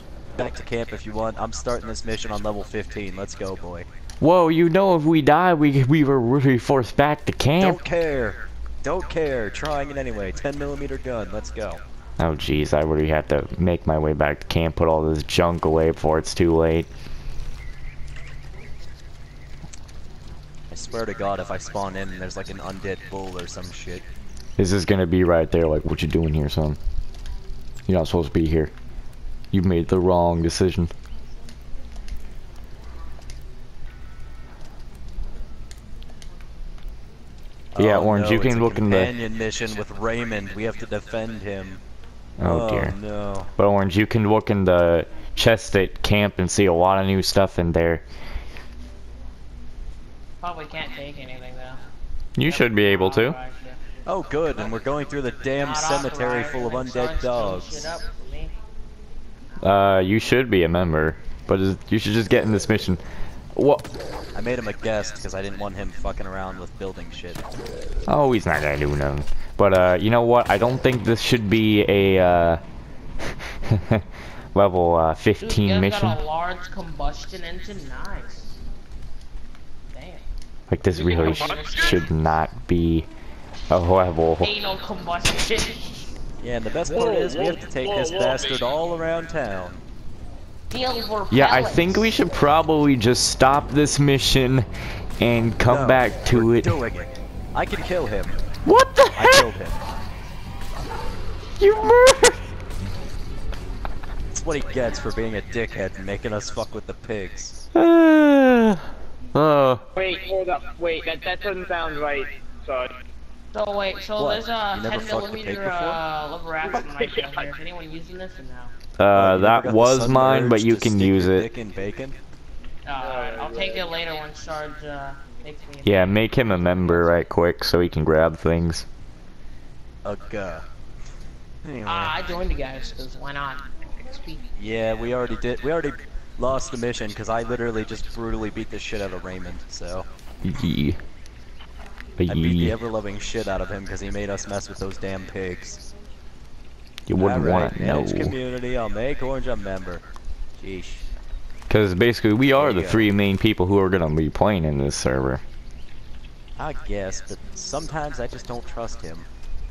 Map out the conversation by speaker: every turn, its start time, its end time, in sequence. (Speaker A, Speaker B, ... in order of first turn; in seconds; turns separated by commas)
Speaker A: 0.4-3.9, Speaker B: 4.2-7.8, Speaker A: 7.6-11.8, Speaker B: 12.2-16.9, Speaker A: 20.7-24.1, Speaker B: 24.6-26.8, Speaker B: 27.9-28.7, Speaker B: 29.5-30.9, Speaker A: 37.7-41.8, Speaker B: 37.8-39.1, Speaker B: 42.4-43.0, Speaker A: 42.4-43.5, Speaker B: 43.6-48.0, Speaker C: 50.4-51.8, Speaker B: 52.4-53.4, Speaker C: 52.5-53.8, Speaker A: 54.1-58.0, Speaker C: 55.6-58.5, Speaker B: 59.6-63.0, Speaker B: 63.5-63.9, Speaker A: 64.3-67.4, Speaker B: 68.1-72.6, Speaker B: 73.2-76.2, Speaker C: 75.4-78.6, Speaker C: 79.9-80.2, Speaker B: 80.7-83.1, Speaker C: 80.9-82.1, Speaker D: 81.0-82.0, Speaker B: 83.7-84.5, Speaker C: 84.4-86.1, Speaker A: 86.4-89.8, Speaker D: 86.9-88.7, Speaker C: 90.7-92.1, Speaker B: 91.3-94.7, Speaker B: 95.2-96.8, Speaker A: 95.7-98.4, Speaker B: 98.7-99.5, Speaker A: 99.1-99.8, Speaker B: 101.6-102.5, Speaker A: 104.3-107.7, Speaker B: 107.7-109.8, Speaker D: 110.0-113.0, Speaker C: 113.5-118.7, Speaker A: 114.2-116.0, Speaker D: 116.7-117.5, Speaker B: 119.0-121.5, Speaker A: 119.1-122.2, Speaker C: 122.8-126.2, Speaker D: 123.0-123.9, Speaker B: 125.8-128.9, Speaker A: 130.1-130.7, Speaker A: 131.6-132.2, Speaker C: 131.9-134.5, Speaker A: 134.6-140.1, Speaker B: 140.4-141.0, Speaker B: 142.2-142.8, Speaker A: 142.3-145.9, Speaker B: 147.1-148.3, Speaker A: 147.2-150.0, Speaker A: 150.6-151.1, Speaker B: 151.7-155.4, Speaker A: 152.6-153.1, Speaker A: 156.6-159.3